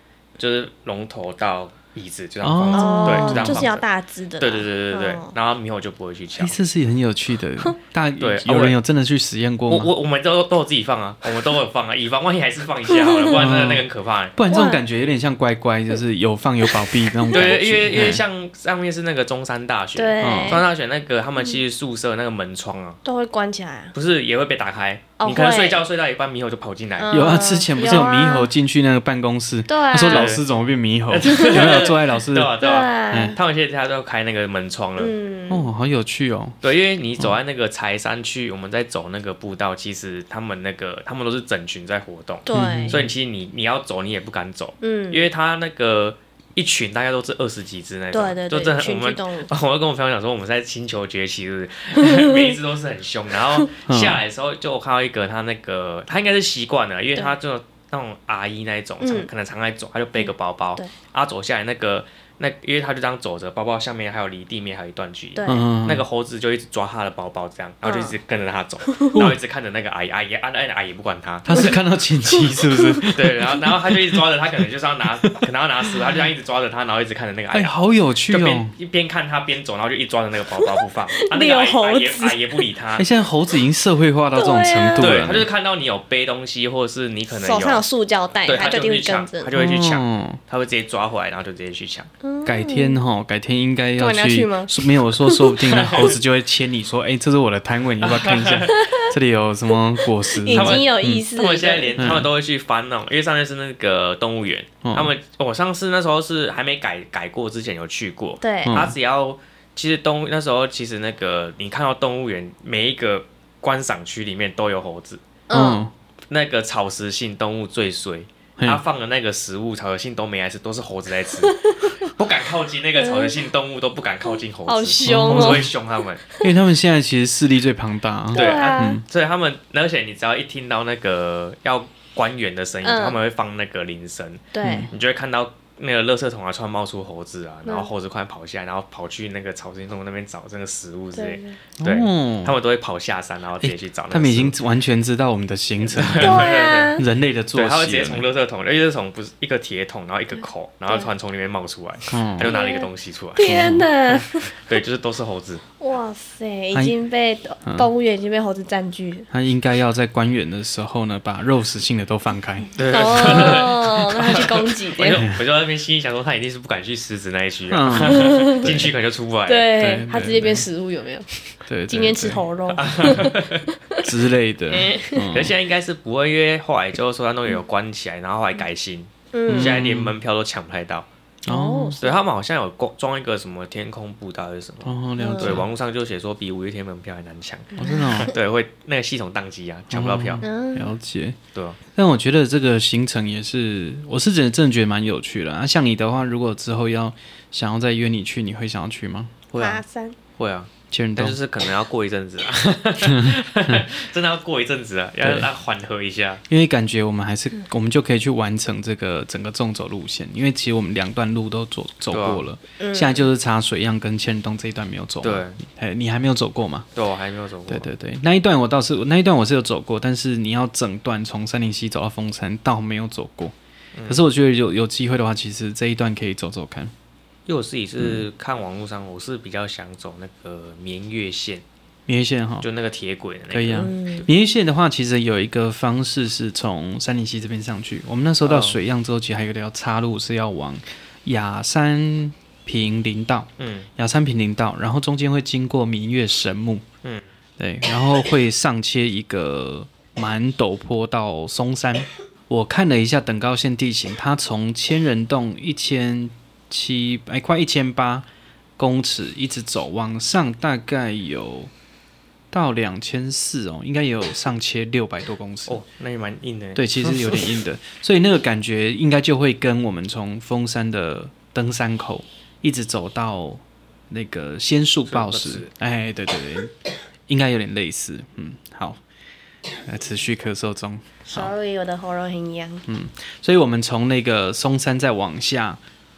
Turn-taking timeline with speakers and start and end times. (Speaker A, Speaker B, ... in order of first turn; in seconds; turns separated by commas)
Speaker A: 0.4-3.8, Speaker B: 2.4-3.7, Speaker C: 2.7-5.3, Speaker A: 4.4-6.6, Speaker B: 6.4-9.9, Speaker A: 8.2-8.8, Speaker A: 9.7-14.4, Speaker C: 12.9-13.5, Speaker B: 13.3-18.2, Speaker C: 14.5-14.8, Speaker A: 17.3-23.0, Speaker C: 19.9-20.7, Speaker B: 20.2-20.6, Speaker C: 23.0-23.9, Speaker A: 23.9-27.4, Speaker C: 25.2-25.8, Speaker C: 27.0-28.5, Speaker B: 27.1-32.5, Speaker C: 29.7-30.3, Speaker A: 30.1-30.4, Speaker A: 31.1-35.1, Speaker C: 31.3-31.9, Speaker C: 32.6-33.4, Speaker B: 33.1-33.4, Speaker C: 35.0-35.7, Speaker B: 35.5-36.6, Speaker A: 36.6-71.8, Speaker C: 42.5-43.1, Speaker B: 42.5-43.0, Speaker C: 44.8-45.3, Speaker C: 48.1-49.5, Speaker C: 52.0-52.5, Speaker B: 53.9-54.2, Speaker C: 59.0-59.3, Speaker C: 65.3-65.7, Speaker B: 65.5-66.0, Speaker C: 67.8-68.2, Speaker C: 68.8-69.2, Speaker B: 69.1-69.4, Speaker B: 71.4-74.3, Speaker C: 72.5-73.0, Speaker A: 73.1-77.7, Speaker B: 75.2-75.5, Speaker B: 77.5-78.7, Speaker A: 78.3-83.1, Speaker C: 80.6-82.7, Speaker B: 83.0-85.5, Speaker C: 84.3-85.1, Speaker A: 85.0-87.8, Speaker C: 87.3-89.5, Speaker A: 88.5-92.1, Speaker B: 89.5-90.4, Speaker C: 92.2-93.0, Speaker B: 92.4-101.2, Speaker C: 94.0-95.9, Speaker A: 95.7-96.2, Speaker A: 98.0-98.8, Speaker C: 98.7-99.1, Speaker C: 100.0-102.0, Speaker A: 100.5-115.2, Speaker B: 102.0-102.3, Speaker B: 104.8-105.1, Speaker C: 108.4-108.8, Speaker B: 108.6-108.9, Speaker C: 115.5-115.8, Speaker B: 115.5-115.9, Speaker A: 116.3-126.2, Speaker C: 121.4-122.1, Speaker C: 123.0-123.4, Speaker C: 124.6-125.7, Speaker B: 125.0-125.7, Speaker B: 126.4-129.0, Speaker C: 128.3-129.0, Speaker A: 128.3-144.6, Speaker C: 132.8-133.2, Speaker C: 134.5-134.9, Speaker B: 134.6-134.9, Speaker C: 137.6-137.9, Speaker C: 141.1-141.6, Speaker B: 141.8-142.6, Speaker B: 143.6-148.2, Speaker A: 145.9-147.0, Speaker C: 146.2-147.0, Speaker A: 147.5-153.6, Speaker B: 152.1-152.5, Speaker C: 152.4-154.6, Speaker B: 153.4-153.9, Speaker A: 154.1-155.6, Speaker C: 155.8-159.3, Speaker B: 159.3-164.4, Speaker A: 162.8-169.7, Speaker C: 162.8-165.2, Speaker B: 167.7-168.9, Speaker C: 168.0-168.7, Speaker C: 169.4-174.1, Speaker B: 169.8-170.7, Speaker B: 171.7-172.4, Speaker A: 172.7-173.7, Speaker B: 174.0-175.5, Speaker C: 174.7-175.3, Speaker A: 175.3-181.1, Speaker C: 179.3-179.8, Speaker B: 179.5-180.1, Speaker B: 181.4-182.0, Speaker C: 181.5-182.2, Speaker A: 182.0-190.4, Speaker B: 184.8-185.7, Speaker C: 185.2-185.6, Speaker B: 187.7-188.3, Speaker B: 189.9-191.4, Speaker C: 190.4-190.9, Speaker A: 191.5-191.8, Speaker B: 191.9-199.4, Speaker A: 199.5-199.8, Speaker C: 199.5-200.2, Speaker A: 200.4-206.4, Speaker B: 200.9-201.4, Speaker B: 203.0-203.8, Speaker B: 205.2-205.5, Speaker B: 206.5-216.9, Speaker A: 212.1-212.4, Speaker C: 212.8-213.3, Speaker A: 215.2-215.6, Speaker A: 216.9-217.9, Speaker B: 217.7-223.5, Speaker A: 223.9-224.2, Speaker B: 224.1-226.9, Speaker A: 227.4-231.6, Speaker B: 228.0-228.2, Speaker B: 232.1-232.7, Speaker A: 232.6-234.3, Speaker B: 233.5-246.8, Speaker C: 233.7-234.2, Speaker A: 238.4-238.8, Speaker A: 243.6-243.9, Speaker A: 247.0-247.3, Speaker B: 247.6-258.3, Speaker B: 258.8-261.7, Speaker B: 262.5-265.8, Speaker A: 265.7-267.5, Speaker B: 266.7-276.7, Speaker A: 275.1-275.7, Speaker B: 277.3-279.0, Speaker B: 279.8-281.5, Speaker C: 281.3-282.8, Speaker B: 282.9-285.8